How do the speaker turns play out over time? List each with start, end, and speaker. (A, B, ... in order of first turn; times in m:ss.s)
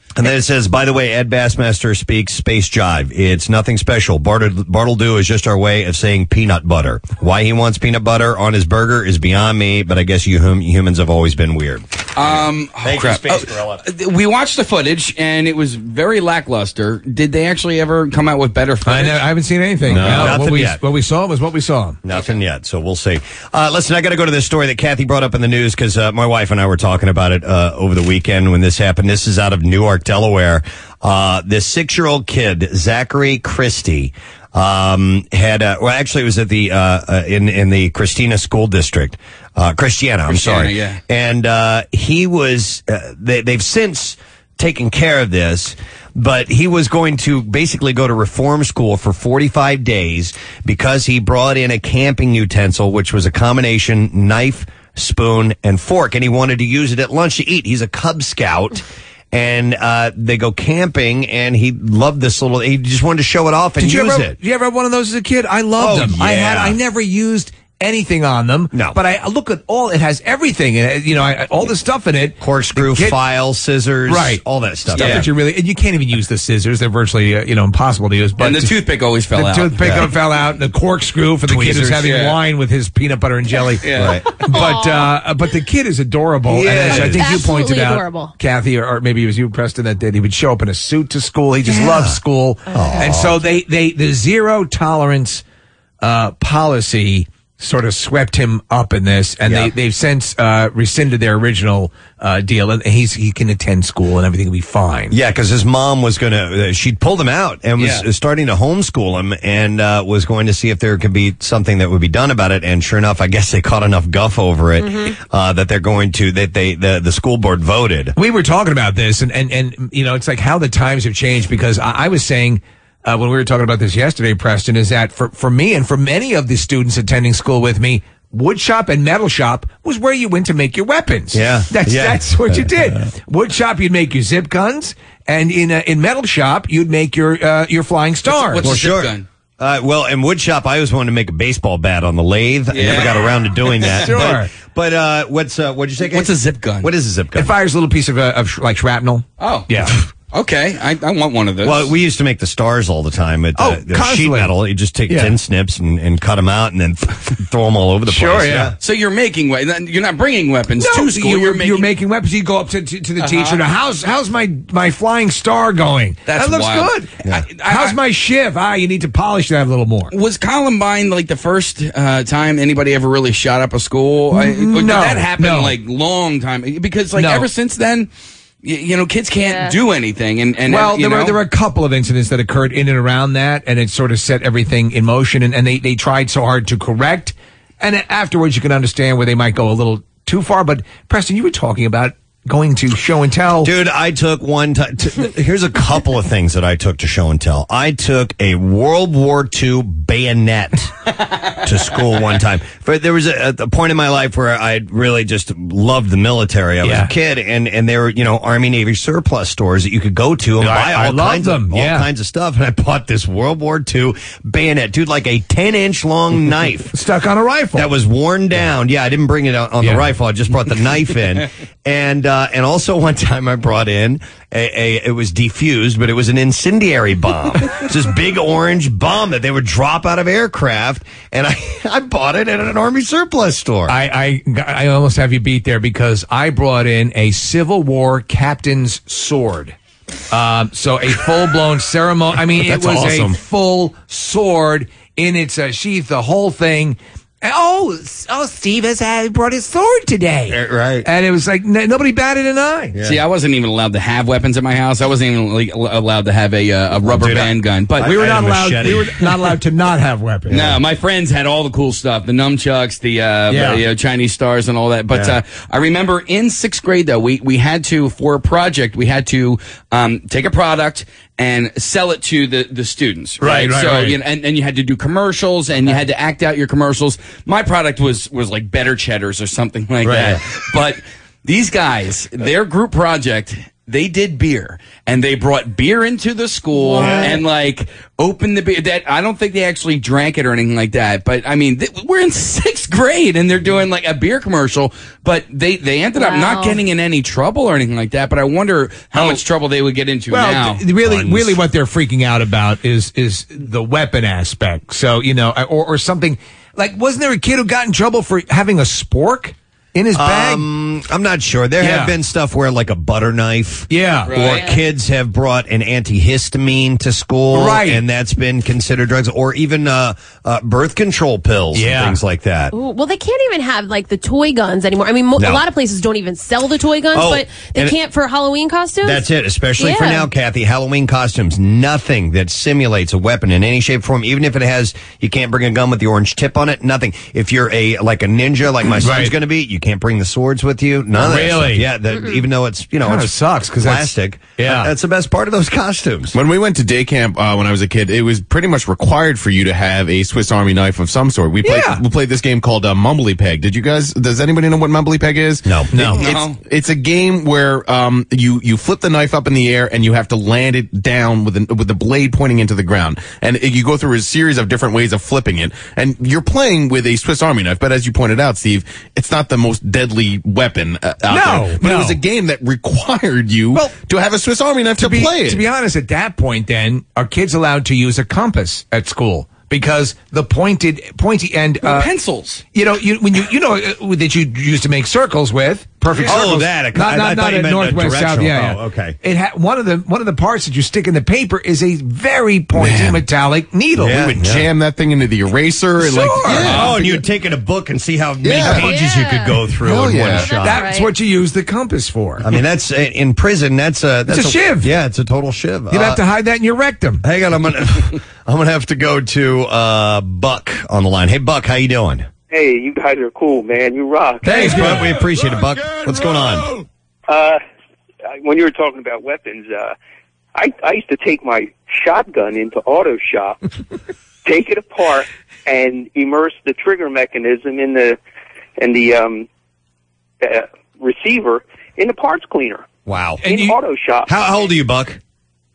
0:00.2-0:13.8 A
0:12.2-0:19.2 B
0:18.8-0:22.0 C
0:19.9-0:20.8 A
0:22.0-1:04.4 A
0:40.3-0:41.0 B
1:03.8-1:13.2 C
1:05.8-1:06.8 A
1:08.7-1:09.0 A
1:12.4-1:15.3 A
1:14.1-1:18.8 C
1:15.0-1:15.3 B
1:18.4-1:20.1 B
1:19.3-1:35.4 C
1:19.8-1:20.1 A
1:21.5-1:22.0 A
1:22.0-1:22.4 B
1:23.8-1:24.2 B
1:24.0-1:24.2 A
1:24.5-1:25.1 D
1:26.5-1:27.3 A
1:26.9-1:28.3 D
1:31.8-1:32.2 A
1:32.7-1:33.4 A
1:36.0-1:45.2 C
1:39.4-1:39.7 A
1:45.1-1:58.1 A
1:54.8-1:55.1 D
1:58.2-2:18.7 C
2:11.3-2:12.9 A
2:18.3-2:19.2 B
2:18.6-2:27.5 A
2:22.7-2:23.2 B
2:23.9-2:24.5 C
2:26.0-2:26.9 B
2:27.4-2:30.0 C
2:29.4-2:29.7 B
2:30.3-2:31.9 B
2:31.6-2:38.8 A
2:33.6-2:34.5 C
2:35.1-2:35.4 C
2:38.1-2:38.8 C
2:38.8-2:41.9 B
2:40.8-2:50.1 C
2:43.2-2:43.6 B
2:46.3-2:48.0 B
2:50.1-2:58.1 B
2:54.3-2:55.8 C
2:57.1-2:57.5 C
2:58.6-3:01.4 B
3:00.7-3:13.7 C
3:13.6-3:21.0 A
3:21.6-3:37.0 A
3:26.8-3:27.1 C
3:30.6-3:32.1 C
3:36.9-3:37.9 C
3:37.7-3:54.0 A
3:39.8-3:40.1 C
3:53.9-3:59.8 C
4:00.3-4:13.0 C
4:02.6-4:03.4 A
4:10.5-4:11.1 A
4:13.0-4:13.2 A
4:13.0-4:18.1 B
4:17.0-4:19.2 A
4:18.0-4:20.8 C
4:20.5-4:20.8 A
4:20.5-5:00.8 B
4:23.5-4:23.8 C
4:33.4-4:34.2 C
4:46.8-4:47.3 D
4:47.0-4:47.4 A
4:56.2-4:56.7 D
5:00.3-5:10.7 C
5:01.0-5:01.6 A
5:10.1-5:22.7 A
5:11.8-5:12.1 C
5:13.9-5:14.3 C
5:14.3-5:14.8 B
5:17.5-5:18.0 C
5:21.7-5:22.2 C
5:22.7-5:29.3 D
5:25.4-5:25.6 A
5:27.1-5:28.0 A
5:29.0-5:46.3 A
5:29.8-5:30.3 D
5:39.0-5:39.3 C
5:41.1-5:41.9 C
5:43.0-5:44.9 C
5:46.3-6:15.6 E
5:51.6-5:52.0 C
5:55.6-5:55.9 A
5:55.9-5:56.2 C
5:56.1-5:56.6 B
6:11.3-6:12.2 C
6:15.0-6:22.1 C
6:21.8-6:22.6 B
6:22.7-6:34.6 C
6:26.2-6:29.2 A
6:32.8-6:33.2 E
6:34.0-6:34.6 A
6:34.4-6:37.2 E
6:36.0-6:36.9 C
6:36.5-6:40.9 A
6:38.4-6:38.9 E
6:38.9-6:39.5 D
6:39.8-6:40.5 E
6:39.9-6:42.5 C
6:40.6-6:41.1 D
6:42.4-6:46.2 A
6:44.3-6:44.9 C
6:45.9-6:47.2 C
6:47.2-6:52.3 A
6:52.5-6:54.9 F
6:54.4-6:56.7 A
6:54.5-6:55.0 C
6:57.3-6:57.6 F
6:58.4-7:00.0 F
7:00.6-7:03.6 F
7:04.4-7:08.2 F
7:08.8-7:09.5 F
7:10.4-7:12.9 F
7:13.0-7:13.4 A
7:13.4-7:13.8 C
7:13.5-7:14.3 F
7:14.3-7:15.2 A